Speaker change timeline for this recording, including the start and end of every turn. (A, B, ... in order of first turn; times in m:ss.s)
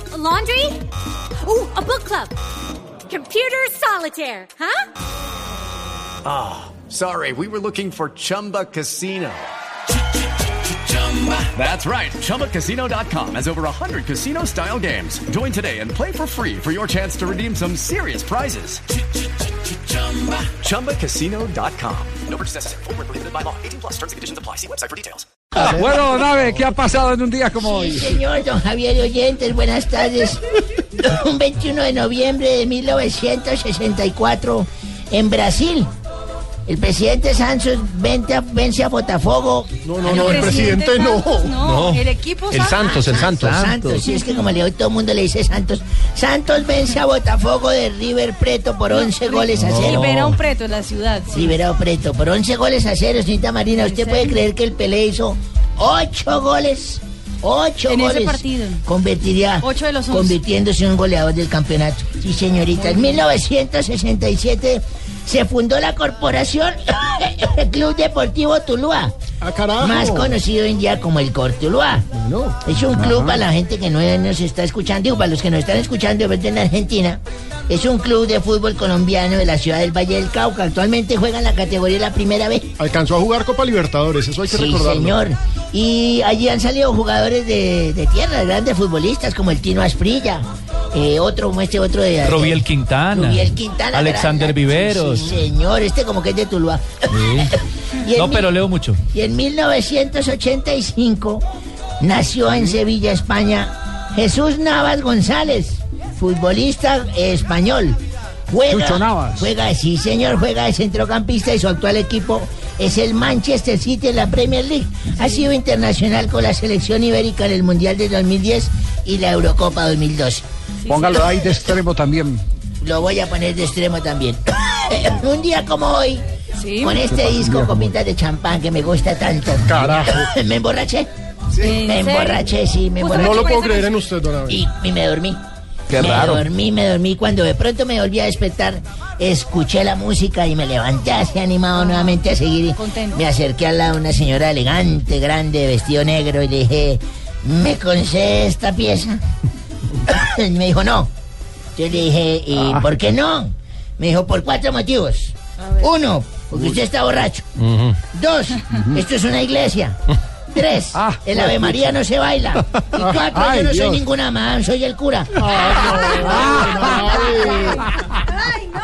0:00.1-0:00.8 A
0:01.4-0:02.4 A
0:03.1-0:04.8 A
0:06.2-0:09.5 B
0:11.3-0:18.8 B
0:20.4-0:25.3 B
0:25.6-0:28.1 C
0:27.6-0:35.9 D
0:36.7-0:40.8 D
0:39.8-0:42.0 E
0:40.1-0:43.1 A
0:41.9-0:42.6 F
0:42.6-0:43.6 E
0:42.6-0:50.4 D
0:42.8-0:44.0 G
0:44.0-0:44.5 A
0:48.9-0:50.4 A
0:49.6-0:50.4 G
0:50.0-0:51.2 F
0:51.2-0:51.6 A
0:51.3-1:09.2 D
0:53.7-0:54.4 A
0:57.9-0:58.8 A
0:59.6-1:00.4 A
1:02.7-1:03.2 A
1:09.4-1:10.4 E
1:09.8-1:22.7 D
1:12.2-1:12.6 E
1:13.0-1:13.4 C
1:22.8-1:25.2 E
1:24.5-1:38.5 D
1:32.2-1:35.4 G
1:37.1-1:37.5 G
1:38.2-1:39.0 G
1:39.1-1:41.4 D
1:42.0-2:00.4 D
1:48.7-1:49.5 C
2:00.9-2:02.4 C
2:02.8-2:06.2 D
2:06.6-2:07.1 A
2:06.8-2:11.1 D
2:07.4-2:07.8 G
2:09.7-2:10.2 C
2:11.6-2:13.6 D
2:11.6-2:12.4 A
2:13.0-2:14.0 A
2:13.1-2:14.6 E
2:14.5-2:15.4 D
2:15.9-2:16.4 G
2:15.9-2:29.2 D
2:21.8-2:22.2 A
2:22.8-2:23.2 A
2:30.0-2:31.1 D
2:31.8-2:37.5 D
2:38.1-2:40.0 D
2:40.5-2:45.5 D
2:41.0-2:41.8 C
2:42.8-2:44.0 C
2:45.4-2:47.9 E
2:46.2-2:48.1 C